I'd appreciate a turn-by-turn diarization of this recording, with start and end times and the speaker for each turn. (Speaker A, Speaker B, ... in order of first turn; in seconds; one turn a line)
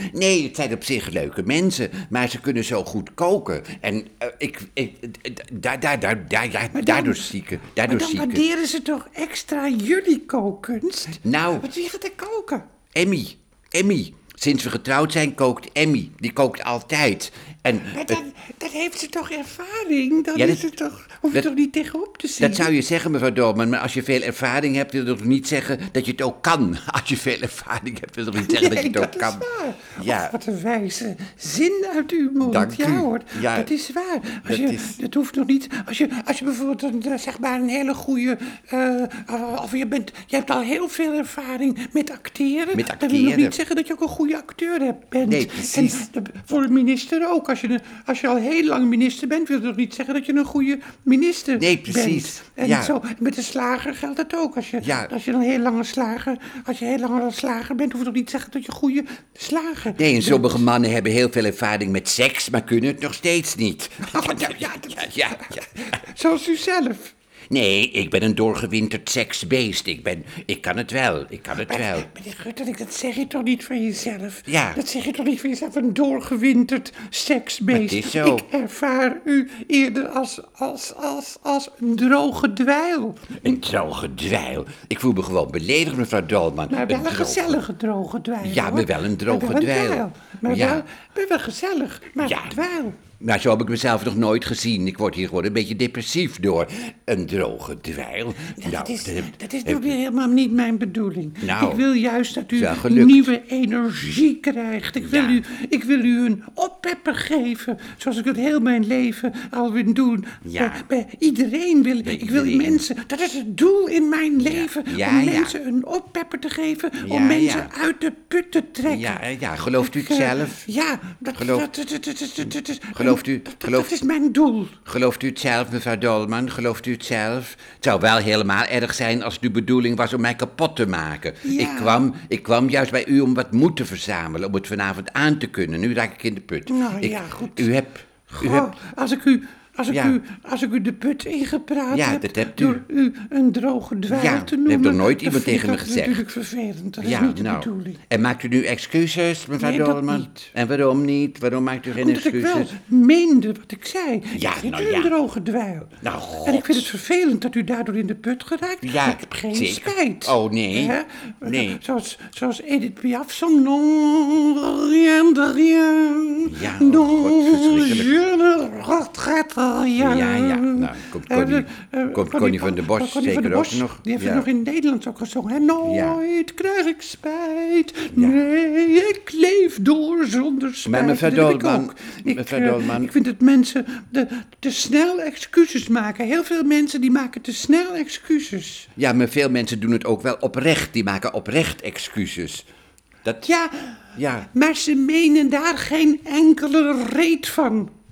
Speaker A: 0.1-8.4
Speaker B: 6.7-7.3
Speaker B: 7.8-12.6
Speaker A: 11.2-11.7
Speaker A: 12.9-18.2
Speaker B: 17.9-22.7
Speaker A: 20.3-20.6
Speaker A: 22.4-29.4
Speaker B: 28.4-60.6
Speaker A: 30.0-30.3
Speaker A: 32.4-33.7
Speaker A: 34.5-35.0
Speaker A: 42.7-43.6
Speaker A: 45.2-46.0
Speaker A: 51.6-52.9
Speaker A: 54.8-55.1
Speaker A: 59.9-65.6
Speaker B: 64.0-67.1
Speaker A: 67.5-72.1
Speaker B: 71.6-83.5
Speaker A: 74.5-74.8
Speaker A: 77.7-78.5
Speaker A: 83.4-87.6
Speaker B: 86.7-93.0
Speaker A: 88.4-90.8
Speaker A: 92.2-92.6
Speaker A: 93.2-99.9
Speaker B: 98.6-119.2
Speaker A: 101.4-101.8
Speaker A: 102.5-103.3
Speaker A: 105.0-105.4
Speaker A: 110.4-110.8
Speaker A: 112.0-112.8
Speaker A: 114.4-115.5
Speaker A: 117.0-117.7
Speaker A: 118.9-120.7
Speaker B: 119.8-124.8
Speaker A: 121.3-121.7
Speaker A: 123.0-124.0
Speaker A: 124.8-138.7
Speaker B: 131.4-132.0
Speaker B: 136.7-137.7
Speaker B: 138.3-148.0
Speaker A: 139.9-140.2
Speaker A: 141.9-142.8
Speaker A: 144.1-146.2
Speaker A: 147.0-152.7
Speaker B: 149.6-150.5
Speaker B: 152.0-155.9
Speaker A: 154.3-155.1
Speaker A: 156.0-156.9
Speaker B: 156.4-188.9
Speaker A: 158.8-161.8
Speaker A: 166.4-168.2
Speaker A: 170.0-174.5
Speaker A: 175.8-176.2
Speaker A: 178.1-178.4
Speaker A: 180.8-183.1
Speaker A: 188.9-192.7
Speaker B: 193.4-197.9
Speaker A: 194.2-194.5